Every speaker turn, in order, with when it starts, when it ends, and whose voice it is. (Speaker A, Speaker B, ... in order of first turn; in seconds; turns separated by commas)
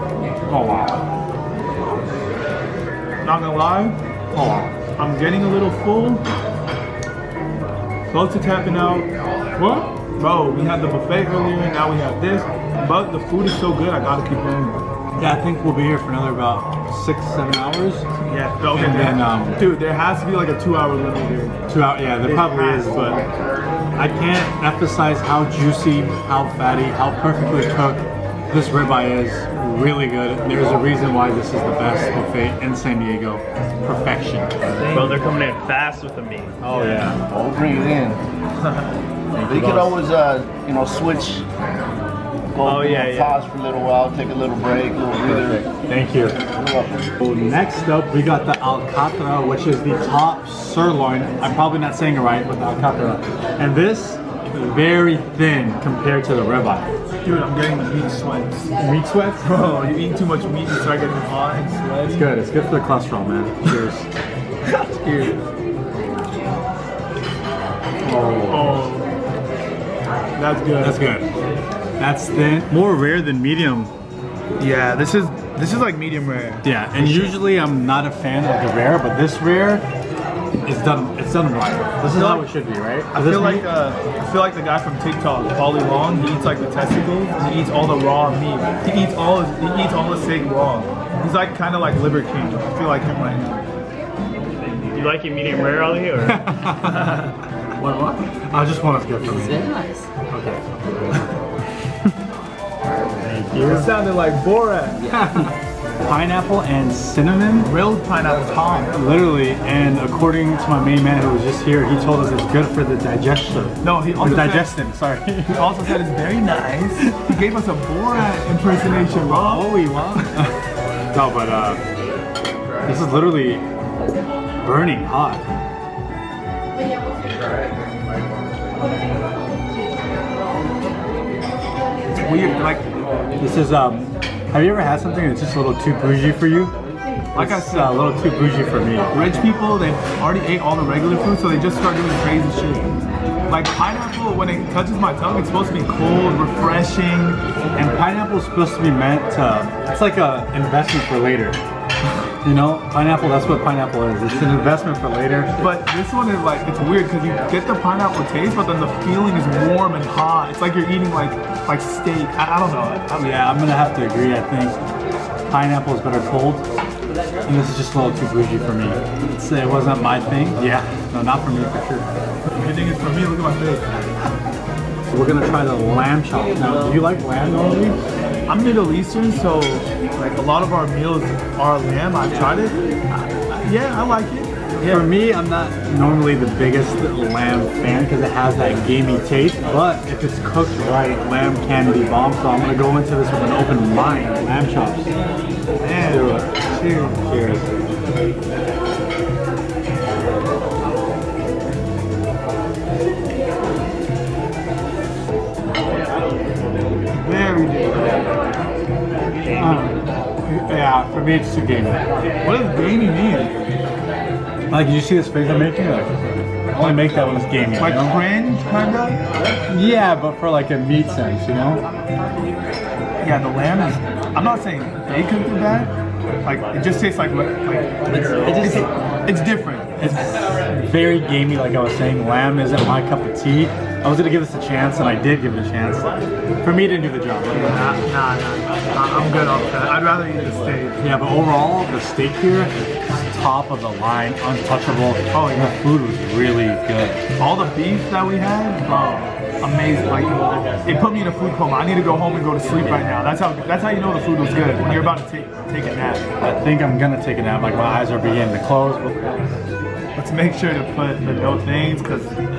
Speaker A: 0.5-1.0, Speaker B: 3.2-4.0, Speaker A: 4.3-4.7, Speaker B: 5.0-6.2, Speaker B: 8.1-9.1, Speaker A: 9.6-9.9, Speaker B: 10.0-14.8, Speaker A: 15.2-18.1, Speaker B: 18.2-21.6, Speaker A: 18.7-19.6, Speaker A: 21.7-23.2, Speaker B: 22.2-23.2, Speaker A: 23.9-35.2, Speaker B: 34.8-35.5, Speaker C: 34.9-36.5, Speaker B: 36.1-37.0, Speaker A: 36.6-37.2, Speaker D: 37.1-38.2, Speaker B: 38.6-38.9, Speaker A: 39.3-40.0, Speaker D: 39.4-41.5, Speaker D: 42.5-45.6, Speaker B: 42.6-43.4, Speaker A: 45.2-46.4, Speaker D: 46.4-47.1, Speaker A: 47.2-56.9, Speaker B: 57.2-58.7, Speaker A: 58.8-59.5, Speaker B: 59.4-62.3, Speaker A: 62.1-64.1, Speaker B: 64.6-65.4, Speaker A: 68.0-68.8, Speaker B: 68.5-69.1, Speaker B: 70.3-71.1, Speaker A: 70.8-71.3, Speaker A: 72.0-73.9, Speaker B: 74.6-77.4, Speaker A: 76.6-79.8, Speaker A: 80.6-83.7, Speaker B: 82.0-82.5, Speaker B: 83.1-93.6, Speaker C: 94.9-96.3, Speaker A: 96.2-97.2, Speaker B: 96.8-97.3, Speaker A: 97.8-99.7, Speaker A: 100.2-101.2, Speaker A: 103.2-103.9, Speaker B: 103.7-105.1, Speaker A: 105.1-105.5, Speaker A: 106.0-107.7, Speaker B: 107.6-108.9, Speaker A: 108.9-115.8, Speaker B: 113.8-114.8, Speaker B: 115.4-120.5, Speaker A: 117.0-117.4, Speaker A: 119.1-120.4, Speaker A: 121.1-121.8, Speaker A: 122.8-123.6, Speaker A: 124.6-125.5, Speaker B: 132.2-132.8, Speaker A: 133.4-136.7, Speaker A: 137.3-139.5, Speaker B: 137.3-138.1, Speaker B: 139.1-147.4, Speaker A: 147.8-151.6, Speaker A: 152.4-155.5, Speaker B: 155.6-163.0, Speaker A: 163.1-164.8, Speaker A: 165.5-166.7, Speaker A: 167.4-172.1, Speaker B: 172.6-173.8, Speaker A: 175.1-178.0, Speaker B: 178.5-185.1, Speaker A: 184.8-195.1, Speaker B: 195.8-197.1, Speaker A: 196.0-197.7, Speaker B: 207.1-208.3, Speaker A: 209.5-209.9, Speaker B: 209.5-209.9, Speaker A: 210.4-212.0, Speaker B: 212.4-213.5, Speaker A: 214.7-218.2, Speaker B: 216.8-219.2, Speaker A: 219.7-221.8, Speaker B: 223.2-230.4, Speaker A: 228.3-228.9, Speaker A: 230.0-238.0, Speaker B: 237.5-241.1, Speaker A: 241.0-247.2, Speaker B: 245.3-245.8, Speaker B: 247.4-256.2, Speaker A: 250.3-251.2, Speaker A: 254.6-255.2, Speaker A: 256.4-259.6, Speaker B: 260.1-262.3